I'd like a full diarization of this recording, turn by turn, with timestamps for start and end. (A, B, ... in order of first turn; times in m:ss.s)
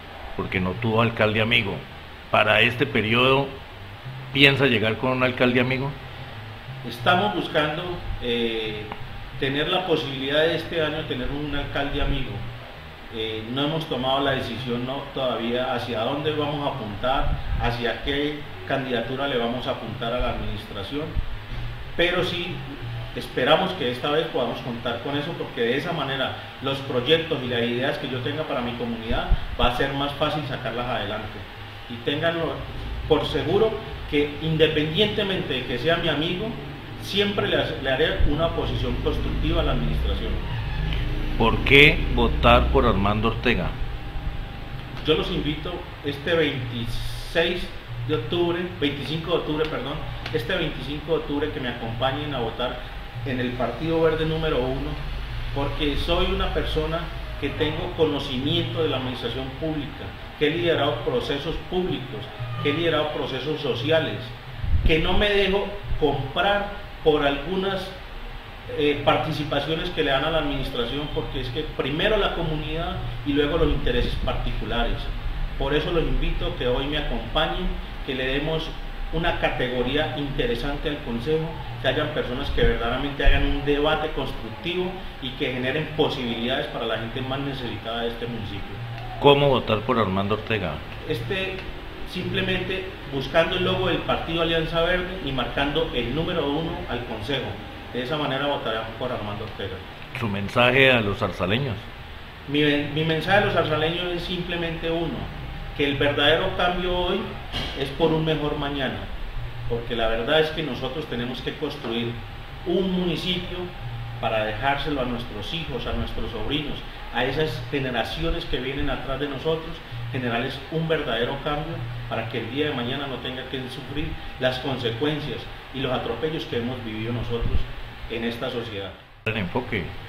0:00.4-0:03.5 A
0:04.3-0:06.0 A
0:06.8-0:12.4 B
0:13.1-0:21.1 B
0:22.0-0:40.4 B
0:41.4-0:43.7 A
0:45.0-0:55.0 B
0:55.5-1:08.0 B
1:08.7-1:28.8 B
1:29.2-1:30.8 A
1:31.0-1:39.8 B
1:40.2-1:41.9 A
1:42.5-1:49.1 B
1:49.7-1:53.7 B
1:54.2-2:08.9 B
2:09.3-2:09.9 A